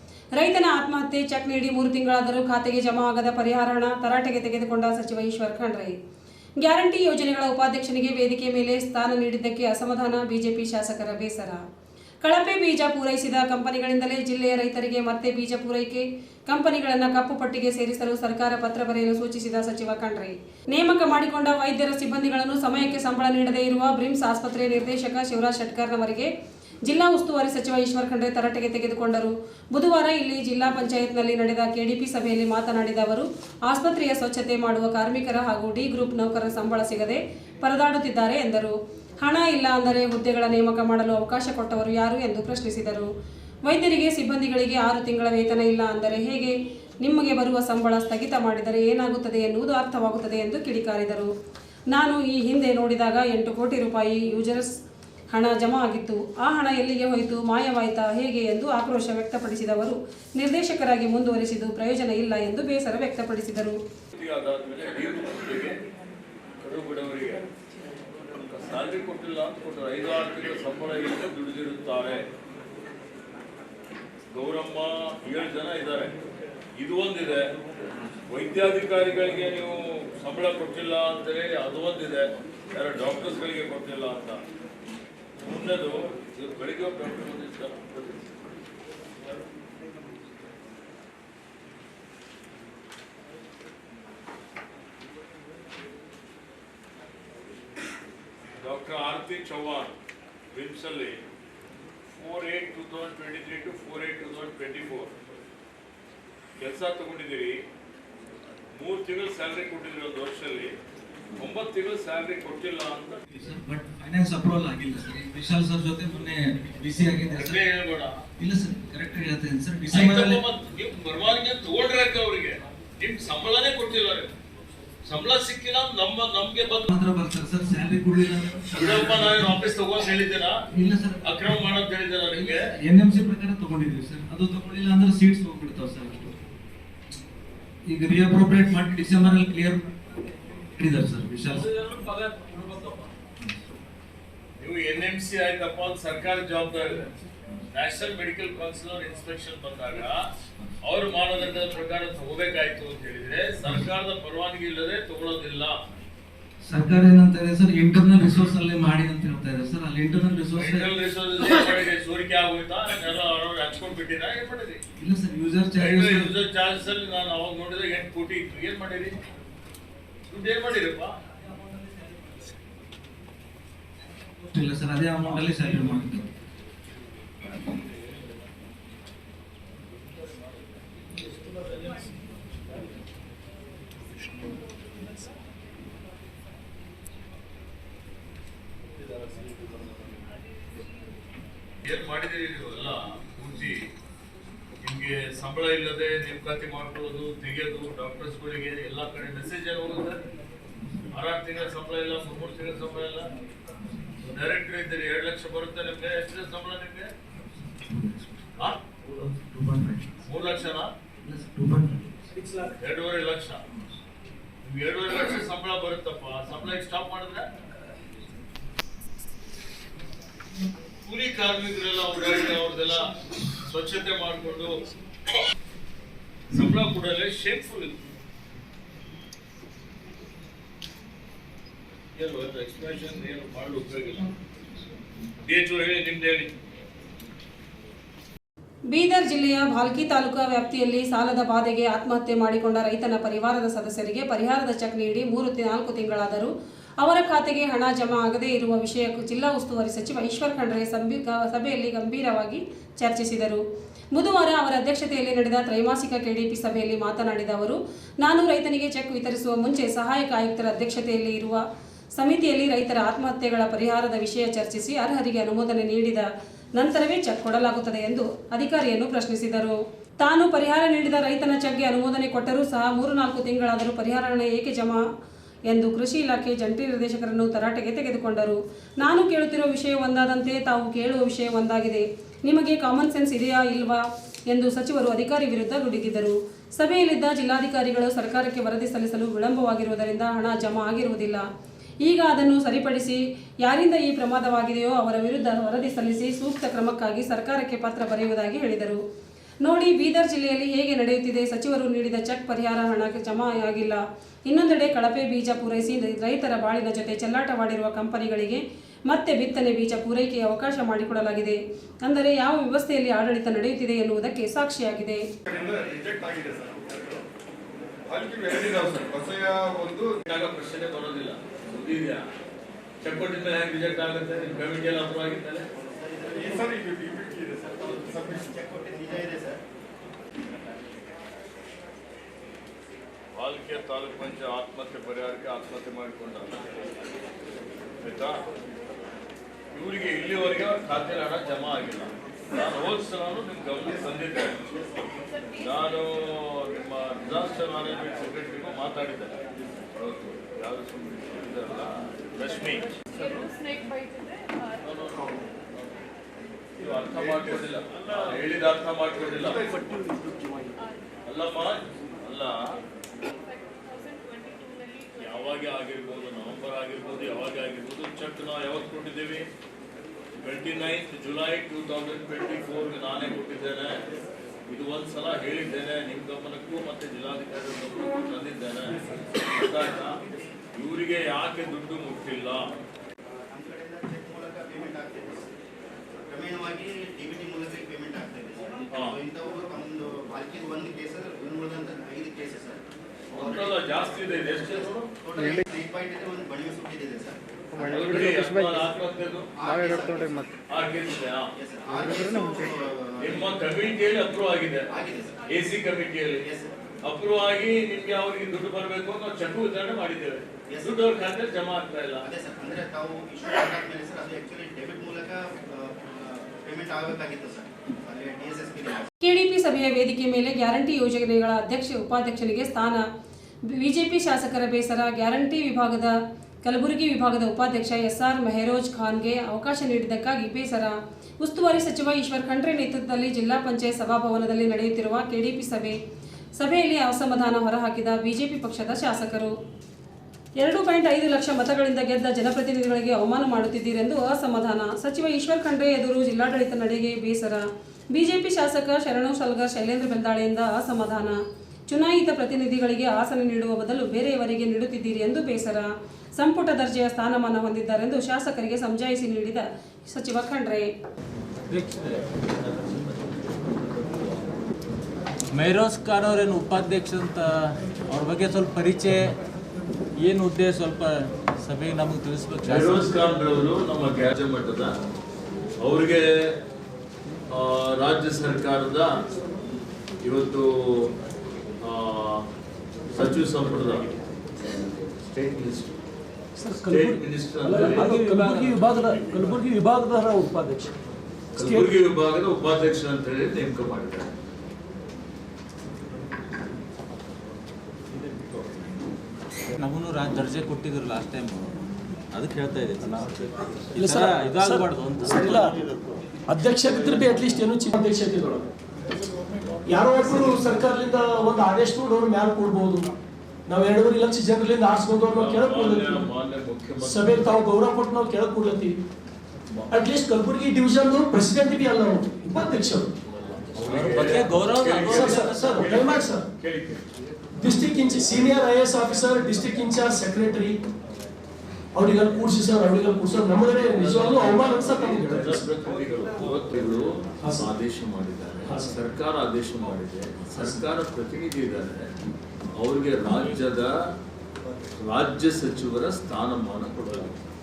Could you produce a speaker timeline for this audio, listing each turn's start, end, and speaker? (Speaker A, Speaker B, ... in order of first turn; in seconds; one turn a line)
Speaker A: 0.3-5.9
Speaker A: 6.6-11.6
Speaker A: 12.2-26.3
Speaker A: 26.9-43.1
Speaker A: 43.6-51.3
Speaker A: 51.9-54.7
Speaker A: 55.3-63.8
Speaker B: 64.1-65.8
Speaker B: 66.6-67.4
Speaker B: 68.5-72.2
Speaker B: 74.3-76.1
Speaker B: 76.8-77.4
Speaker B: 78.3-84.4
Speaker B: 85.4-88.3
Speaker B: 98.6-99.9
Speaker B: 100.5-101.2
Speaker B: 102.1-105.1
Speaker B: 106.6-107.6
Speaker B: 108.8-110.7
Speaker B: 111.3-113.4
Speaker C: 113.4-117.6
Speaker B: 117.3-118.2
Speaker C: 118.4-120.4
Speaker B: 119.9-124.3
Speaker B: 125.0-126.9
Speaker C: 126.9-129.6
Speaker B: 128.8-130.5
Speaker C: 130.7-131.6
Speaker B: 131.2-132.7
Speaker C: 132.3-136.3
Speaker C: 137.8-140.0
Speaker C: 140.5-141.7
Speaker D: 141.5-142.9
Speaker B: 144.6-147.1
Speaker B: 147.7-150.2
Speaker B: 150.8-155.7
Speaker C: 156.7-160.9
Speaker B: 160.6-164.8
Speaker C: 165.0-166.3
Speaker B: 165.8-169.1
Speaker B: 170.3-171.1
Speaker C: 174.5-176.2
Speaker B: 191.8-193.8
Speaker B: 194.8-200.2
Speaker B: 201.1-203.2
Speaker B: 204.2-207.1
Speaker C: 207.9-208.3
Speaker C: 209.2-210.1
Speaker B: 210.2-210.9
Speaker C: 211.2-212.2
Speaker E: 212.4-212.7
Speaker B: 212.8-213.6
Speaker B: 214.6-217.5
Speaker B: 221.0-223.1
Speaker B: 223.6-224.7
Speaker B: 226.5-228.0
Speaker B: 232.2-234.3
Speaker B: 235.4-236.5
Speaker A: 238.9-253.6
Speaker A: 254.1-261.6
Speaker A: 262.2-275.0
Speaker A: 275.7-291.4
Speaker A: 292.0-299.0
Speaker A: 299.6-315.2
Speaker F: 315.4-317.1
Speaker F: 318.1-320.2
Speaker B: 320.2-322.2
Speaker B: 323.0-325.7
Speaker G: 325.8-326.7
Speaker F: 326.3-328.5
Speaker G: 328.2-329.6
Speaker B: 333.3-336.9
Speaker B: 338.0-338.4
Speaker B: 339.7-344.6
Speaker B: 345.6-349.4
Speaker B: 350.0-353.2
Speaker B: 354.8-356.0
Speaker B: 356.8-359.7
Speaker B: 361.2-362.6
Speaker B: 365.1-369.4
Speaker B: 370.4-374.0
Speaker B: 374.7-380.2
Speaker B: 380.7-382.7
Speaker G: 383.5-385.5
Speaker G: 386.2-393.8
Speaker B: 388.9-389.2
Speaker B: 393.3-395.1
Speaker G: 394.6-398.4
Speaker B: 397.9-399.5
Speaker G: 399.6-400.6
Speaker B: 400.7-401.5
Speaker G: 401.6-403.6
Speaker B: 403.2-404.9
Speaker G: 404.9-405.4
Speaker B: 405.4-406.5
Speaker G: 406.4-406.7
Speaker B: 407.0-412.2
Speaker G: 410.7-411.2
Speaker G: 412.2-419.1
Speaker A: 419.2-423.0
Speaker A: 423.7-436.0
Speaker A: 436.6-439.5
Speaker A: 440.6-451.4
Speaker A: 451.9-460.9
Speaker D: 461.7-463.4
Speaker D: 465.5-469.4
Speaker D: 470.2-473.2
Speaker B: 472.6-474.9
Speaker B: 475.8-476.5
Speaker B: 477.5-479.1
Speaker B: 480.2-481.1
Speaker B: 481.8-482.4
Speaker B: 483.1-485.9
Speaker E: 486.6-490.9
Speaker B: 486.8-488.2
Speaker D: 488.1-488.7
Speaker B: 488.7-489.4
Speaker B: 491.6-494.3
Speaker E: 491.6-491.9
Speaker D: 499.8-501.8
Speaker D: 502.3-505.8
Speaker E: 503.9-505.8
Speaker E: 506.5-508.7
Speaker E: 509.8-513.1
Speaker E: 513.7-516.2
Speaker B: 515.3-517.5
Speaker E: 517.0-519.0
Speaker B: 519.7-520.0
Speaker E: 519.9-523.1
Speaker B: 523.3-527.0
Speaker D: 523.8-526.0
Speaker E: 525.0-526.4
Speaker E: 527.6-530.8
Speaker E: 531.9-535.6
Speaker B: 533.9-542.1
Speaker E: 537.4-537.7
Speaker B: 542.8-543.9
Speaker B: 545.0-547.4